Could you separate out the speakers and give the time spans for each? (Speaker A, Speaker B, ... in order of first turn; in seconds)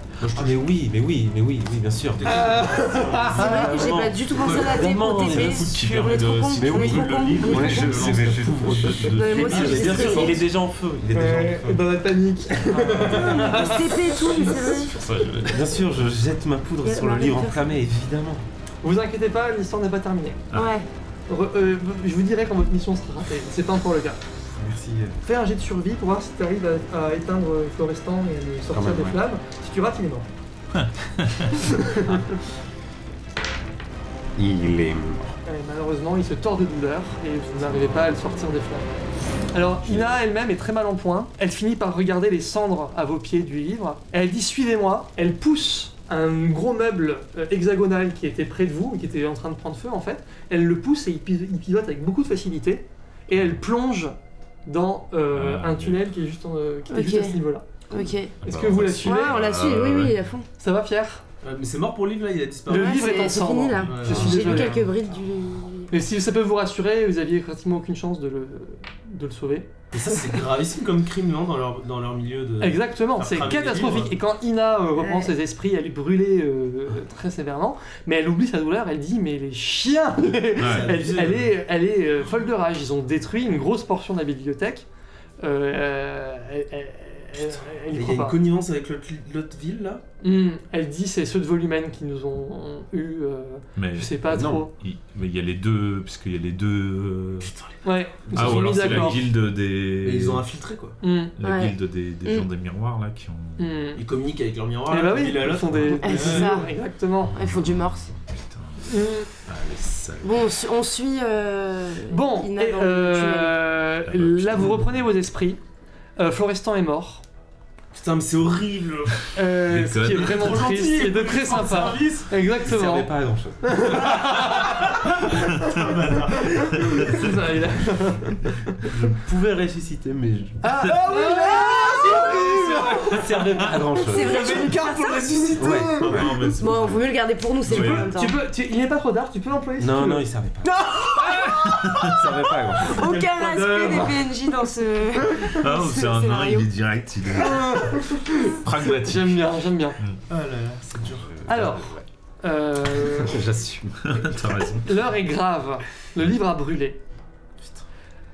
Speaker A: 0.2-0.7, 2.2-5.9, 7.6-8.5, 9.5-10.2, 61.4-64.8, 69.9-74.2, 80.6-81.5, 87.9-90.0, 97.5-97.7, 98.3-99.2, 100.0-101.0, 104.0-106.7, 117.9-119.3, 120.1-122.3, 125.6-126.9, 129.1-130.2, 130.8-136.5, 140.8-142.2, 142.9-144.2, 150.3-151.4
Speaker B: 0.3-5.8, 6.5-11.9, 12.7-13.8, 15.4-18.5, 24.5-25.2, 28.7-29.2, 34.4-35.4, 39.8-40.2, 94.3-94.7, 122.6-124.4, 129.0-130.6, 133.6-134.5, 135.6-136.4, 139.8-140.7, 142.0-143.1, 151.2-152.1, 153.0-154.3
Speaker C: 2.3-3.7, 11.1-14.9, 18.8-20.4, 21.3-24.2, 25.2-30.3, 31.6-32.3, 35.5-38.9, 39.5-57.9, 58.4-59.4, 60.6-61.2, 62.7-64.9, 65.9-69.8, 72.6-84.9, 85.4-88.4, 90.2-94.7, 97.8-99.2, 101.0-101.3, 103.6-104.0, 104.9-107.4, 108.9-109.3, 112.1-115.6, 116.2-117.2, 119.3-123.1, 123.6-125.7, 126.5-128.5, 130.6-133.6, 137.7-140.3, 141.2-141.6, 143.6-144.2, 147.4-150.0, 151.5-153.4, 154.8-157.0
Speaker D: 3.3-10.4, 12.9-15.0, 16.8-17.7, 20.5-20.9, 56.9-58.3, 59.0-60.5, 62.7-65.9, 75.0-75.3, 101.4-102.5, 106.0-106.7, 107.3-108.1, 110.2-113.6, 134.0-135.8, 136.6-138.4, 142.8-146.7
Speaker E: 4.6-10.4, 14.9-15.8, 30.7-31.6, 55.3-56.0, 58.4-60.2, 63.8-64.0, 80.6-80.9, 93.8-97.5, 98.3-100.5, 101.4-103.8, 107.3-110.6, 114.1-115.0, 119.7-120.6, 136.0-137.1, 137.6-138.1, 141.8-142.2, 145.5-150.2, 154.0-155.0